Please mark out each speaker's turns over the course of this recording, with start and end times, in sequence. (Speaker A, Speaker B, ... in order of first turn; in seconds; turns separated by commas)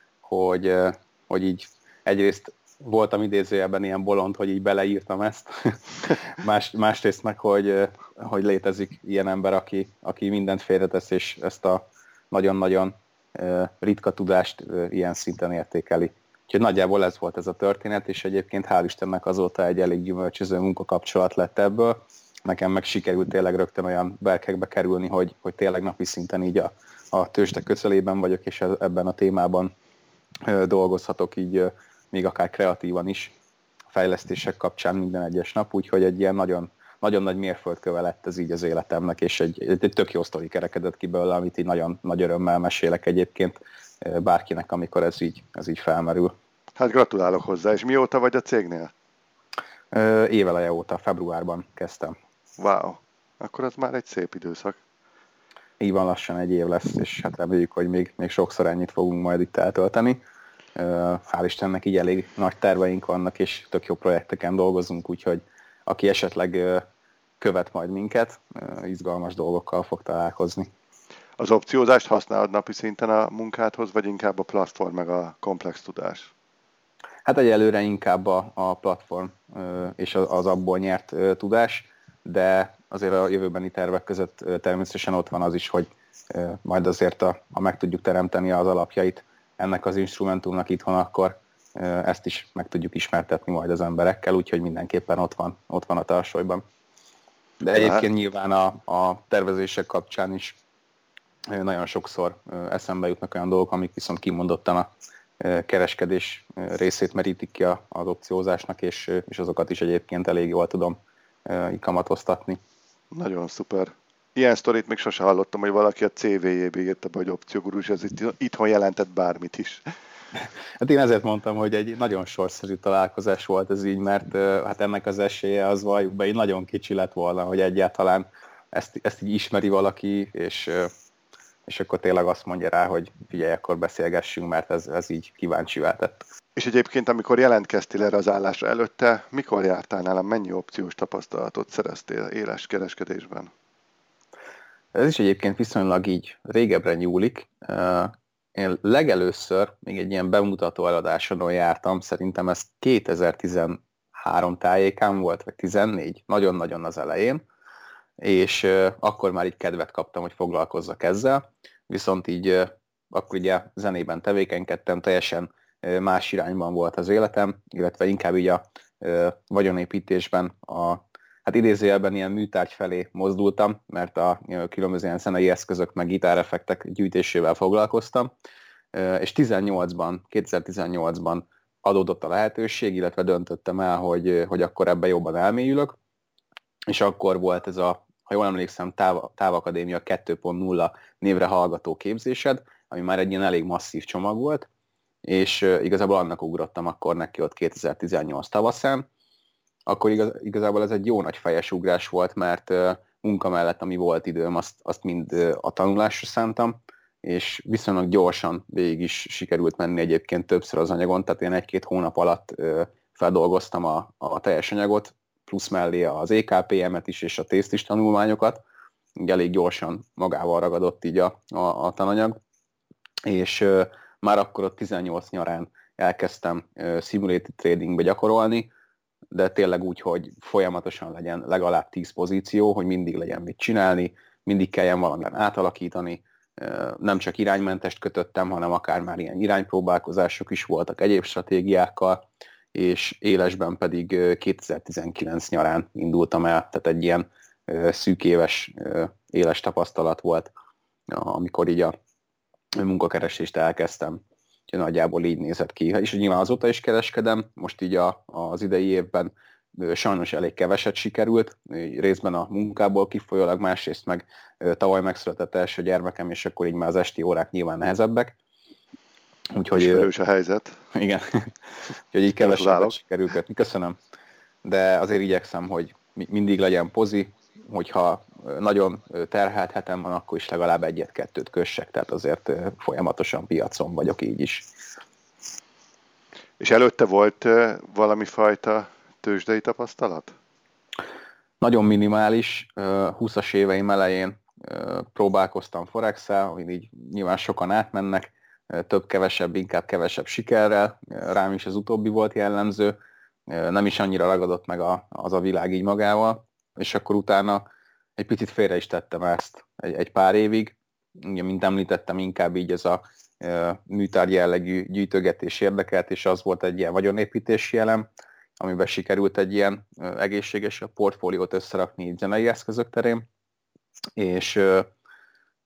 Speaker A: 0.2-29.7, Speaker A: 30.4-33.3, Speaker A: 33.9-46.3, Speaker B: 46.8-48.9, Speaker A: 49.9-52.2, Speaker B: 52.6-54.8, Speaker A: 55.8-60.2, Speaker A: 60.8-66.8, Speaker A: 67.4-70.7, Speaker B: 71.4-76.3, Speaker A: 77.2-96.6, Speaker A: 97.6-100.6, Speaker B: 97.8-98.0, Speaker A: 101.5-112.6, Speaker B: 113.1-119.8, Speaker A: 120.4-130.9, Speaker A: 131.7-136.2, Speaker B: 136.6-143.5, Speaker A: 144.9-157.4, Speaker A: 158.2-178.3, Speaker A: 178.9-186.0, Speaker A: 186.9-194.7, Speaker A: 195.2-199.1, Speaker A: 199.9-218.6, Speaker A: 219.2-222.4, Speaker A: 223.2-228.7, Speaker A: 229.3-250.5, Speaker A: 251.1-251.9, Speaker A: 252.8-268.4, Speaker A: 269.5-270.1, Speaker B: 269.7-270.8, Speaker A: 270.9-271.5, Speaker A: 272.1-274.0, Speaker B: 272.4-273.0, Speaker A: 274.6-284.7, Speaker B: 286.6-290.3, Speaker A: 291.6-303.0, Speaker A: 303.5-307.6, Speaker A: 308.2-318.1, Speaker A: 318.6-323.2, Speaker A: 324.2-324.9